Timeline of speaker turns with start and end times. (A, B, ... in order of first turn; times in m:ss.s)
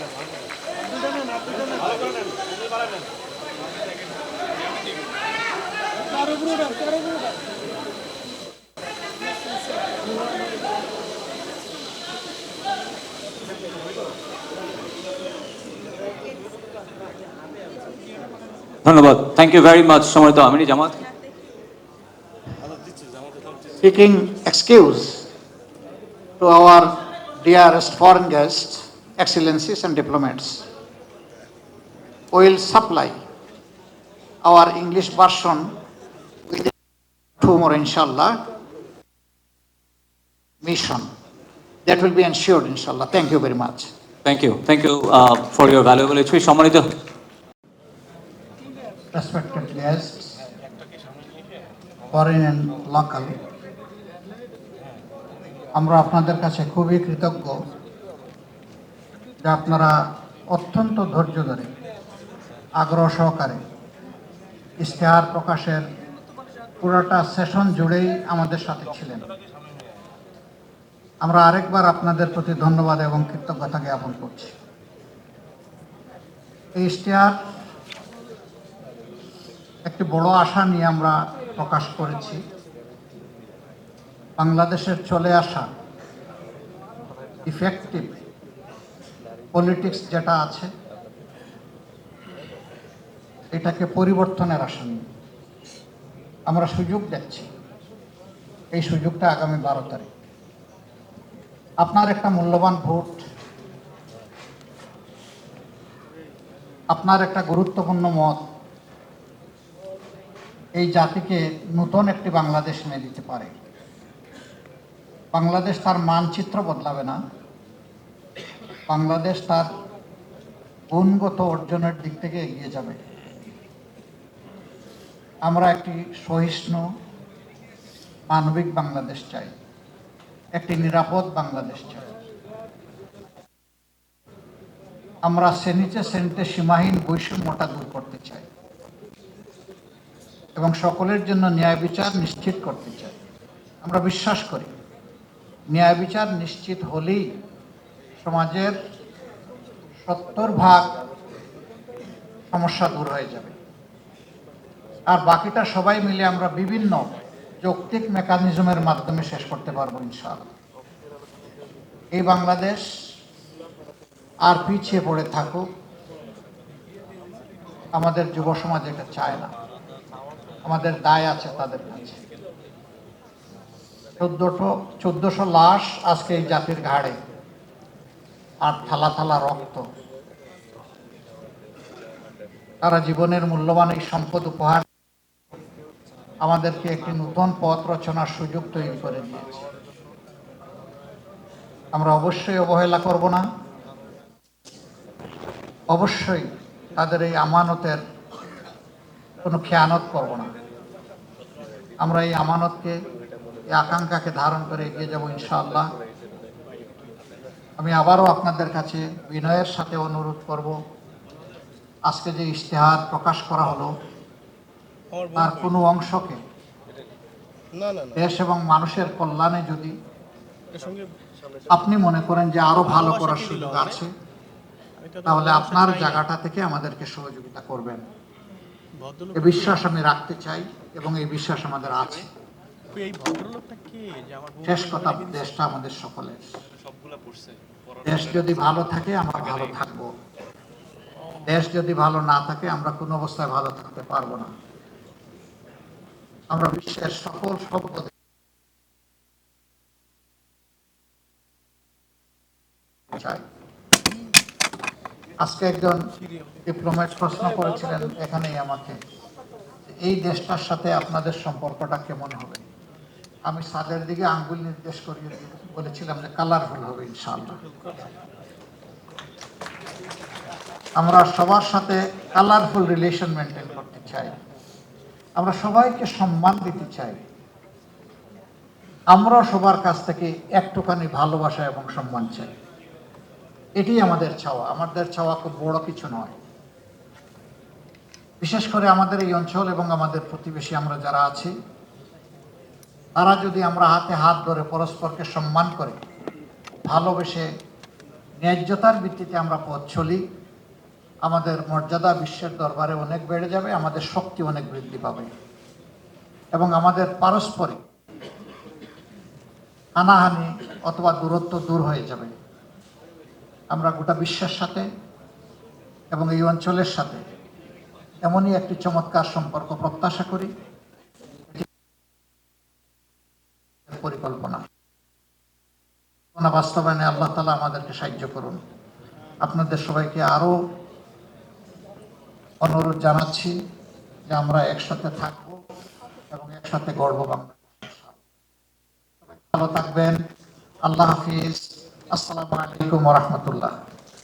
0:18.8-0:21.0 A
0:23.8-0:25.3 B
0:26.4-0:30.7 B
0:32.3-0:33.2 B
0:34.4-0:35.7 B
0:37.4-0:38.4 B
0:40.6-0:41.1 B
0:41.8-0:43.9 B
0:44.2-0:46.8 A
0:49.1-0:50.4 B
0:52.1-0:53.3 B
0:55.8-0:57.6 B
0:59.4-1:01.7 B
1:02.8-1:03.6 B
1:04.8-1:05.9 B
1:06.8-1:09.3 B
1:11.2-1:14.6 B
1:16.8-1:17.4 B
1:19.8-1:22.4 B
1:24.4-1:25.7 B
1:27.4-1:28.2 B
1:29.5-1:30.7 B
1:33.5-1:35.0 B
1:36.5-1:37.5 B
1:38.7-1:40.1 B
1:41.8-1:43.2 B
1:46.9-1:48.4 B
1:50.8-1:53.5 B
1:55.3-1:57.2 B
1:58.9-1:59.7 B
2:00.9-2:03.0 B
2:05.4-2:06.8 B
2:08.3-2:09.5 B
2:10.6-2:12.1 B
2:15.3-2:18.5 B
2:20.6-2:23.2 B
2:23.8-2:24.7 B
2:25.7-2:27.3 B
2:28.2-2:28.8 B
2:30.0-2:30.9 B
2:32.5-2:33.6 B
2:35.1-2:40.5 B
2:42.1-2:42.9 B
2:44.5-2:45.7 B
2:47.9-2:49.5 B
2:50.6-2:52.2 B
2:54.2-2:57.2 B
2:58.6-2:59.9 B
3:02.8-3:04.8 B
3:06.4-3:09.6 B
3:11.9-3:13.4 B
3:15.9-3:18.0 B
3:19.4-3:20.5 B
3:22.0-3:23.0 B
3:23.7-3:25.9 B
3:27.8-3:30.8 B
3:32.1-3:34.0 B
3:35.2-3:35.5 C
3:35.3-3:36.4 B
3:38.1-3:40.0 B
3:40.7-3:41.1 C
3:41.7-3:44.1 B
3:42.9-3:43.9 C
3:45.0-3:46.2 C
3:45.2-3:48.0 B
3:49.0-3:49.8 C
3:49.3-3:52.3 B
3:52.9-3:55.5 C
3:54.6-3:56.6 B
3:57.0-3:57.5 C
3:58.0-4:00.1 B
4:01.4-4:04.5 B
4:06.5-4:08.1 B
4:13.1-4:13.4 B
4:15.4-4:16.0 B
4:16.6-4:19.0 B
4:19.9-4:22.6 B
4:23.5-4:27.6 B
4:31.0-4:34.4 B
4:35.4-4:37.2 B
4:39.1-4:42.5 B
4:43.8-4:46.4 B
4:48.4-4:51.5 B
4:53.2-4:56.0 B
4:56.9-4:57.5 B
4:58.4-5:00.2 B
5:01.2-5:05.3 B
5:06.5-5:07.8 B
5:10.0-5:12.3 B
5:13.7-5:14.9 B
5:16.1-5:17.2 B
5:18.2-5:20.5 B
5:23.9-5:24.6 B
5:26.4-5:28.6 B
5:29.4-5:30.6 B
5:32.6-5:33.6 B
5:34.3-5:35.6 B
5:36.3-5:38.2 B
5:39.3-5:40.2 B
5:40.8-5:43.7 B